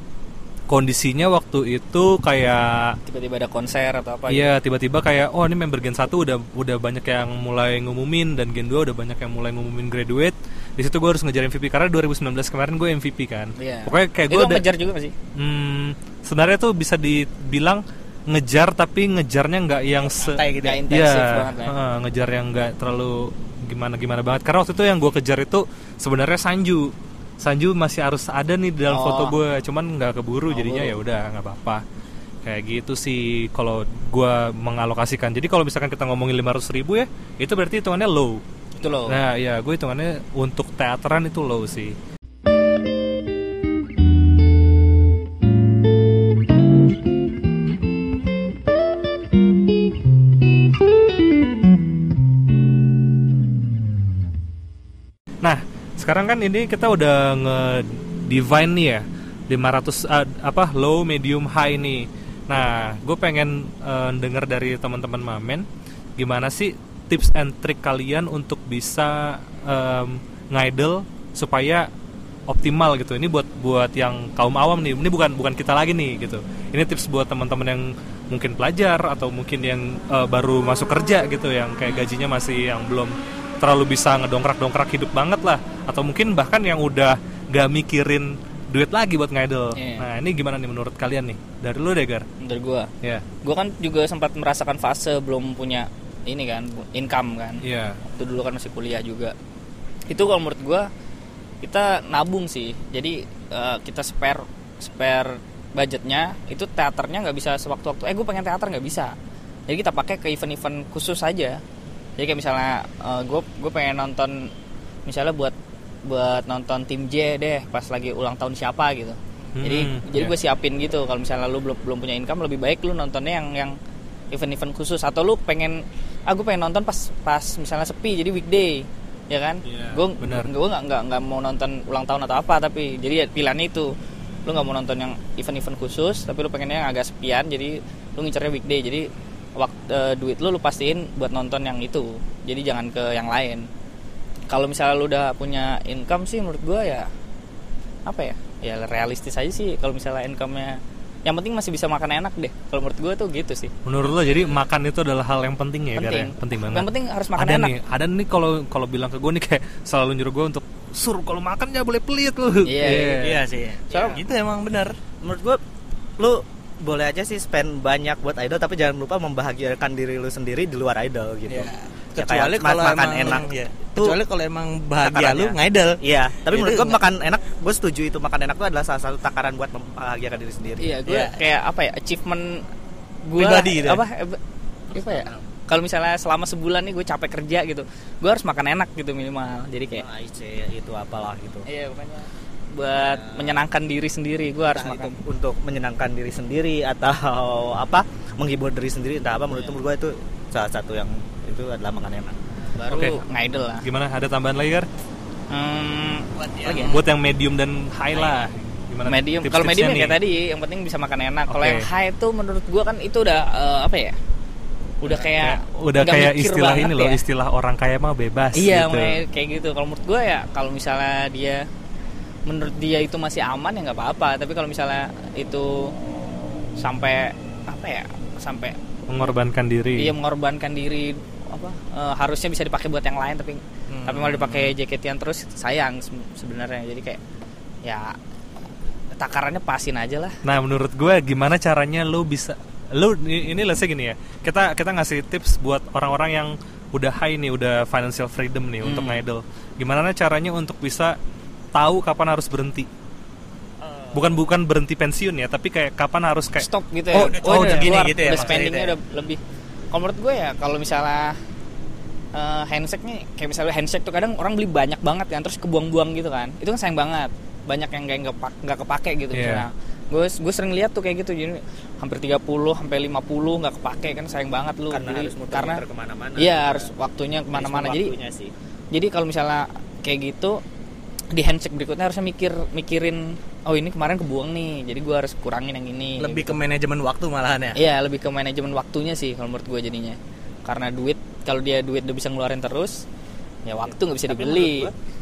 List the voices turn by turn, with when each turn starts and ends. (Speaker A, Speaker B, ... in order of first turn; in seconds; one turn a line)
Speaker A: 0.7-3.0
Speaker B: 3.1-4.5
Speaker A: 4.3-14.6
Speaker B: 13.6-15.2
Speaker A: 15.3-31.8
Speaker C: 20.0-20.9
Speaker B: 20.6-21.8
Speaker B: 28.9-29.4
Speaker B: 30.5-30.9
Speaker A: 32.4-38.4
Speaker B: 38.8-39.2
Speaker A: 39.1-42.0
Speaker A: 55.4-65.7
Speaker A: 66.2-71.9
Speaker A: 72.5-92.2
Speaker B: 81.9-82.1
Speaker B: 89.8-90.1
Speaker B: 92.4-92.9
Speaker B: 93.4-97.6
Speaker A: 97.6-98.0
Speaker B: 98.2-99.3
Speaker B: 100.1-100.9
Speaker B: 101.6-109.1
Speaker B: 109.7-111.6
Speaker B: 112.2-114.5
Speaker B: 115.1-123.8
Speaker A: 119.6-120.3
Speaker B: 124.3-133.9
Speaker A: 129.7-130.5
Speaker B: 134.5-143.7
Speaker B: 144.5-147.1
Speaker B: 148.1-153.7
Speaker A: 153.8-163.4
Speaker C: 154.1-154.5
Speaker B: 156.0-157.7
Speaker B: 162.7-163.2
Speaker C: 163.2-165.0
Speaker D: 163.9-164.2
Speaker B: 163.9-164.2
Speaker D: 165.2-165.6
Speaker D: 166.2-174.2
Speaker C: 171.5-176.0
Speaker D: 175.0-181.0
Speaker C: 176.5-177.0
Speaker B: 180.8-182.7
Speaker C: 181.1-181.3
Speaker B: 183.2-184.4
Speaker C: 183.4-184.0
Speaker B: 184.9-190.1
Speaker D: 185.0-185.4
Speaker D: 190.0-191.7
Speaker B: 191.7-195.2
Speaker D: 193.0-193.6
Speaker D: 194.7-202.4
Speaker B: 202.8-203.8
Speaker A: 202.9-203.2
Speaker A: 203.8-204.9
Speaker B: 205.5-207.0
Speaker C: 206.4-207.0
Speaker A: 206.9-210.2
Speaker B: 209.1-214.2
Speaker A: 211.5-211.8
Speaker B: 215.0-217.2
Speaker A: 215.4-219.2
Speaker B: 218.6-221.6
Speaker B: 222.5-225.9
Speaker B: 226.8-229.3
Speaker A: 229.1-230.1
Speaker B: 230.0-237.2
Speaker C: 233.9-234.7
Speaker B: 237.8-238.2
Speaker B: 239.2-240.4
Speaker A: 240.4-251.2
Speaker B: 248.8-249.2
Speaker A: 251.7-252.9
Speaker A: 254.1-258.6
Speaker B: 256.6-259.4
Speaker C: 257.1-258.9
Speaker B: 259.9-261.4
Speaker B: 262.4-275.8
Speaker A: 269.3-269.6
Speaker D: 274.9-276.9
Speaker B: 276.4-278.1
Speaker D: 277.5-278.5
Speaker B: 278.9-280.6
Speaker B: 281.3-286.6
Speaker C: 286.2-287.8
Speaker B: 287.8-293.0
Speaker B: 293.7-294.9
Speaker D: 293.9-295.0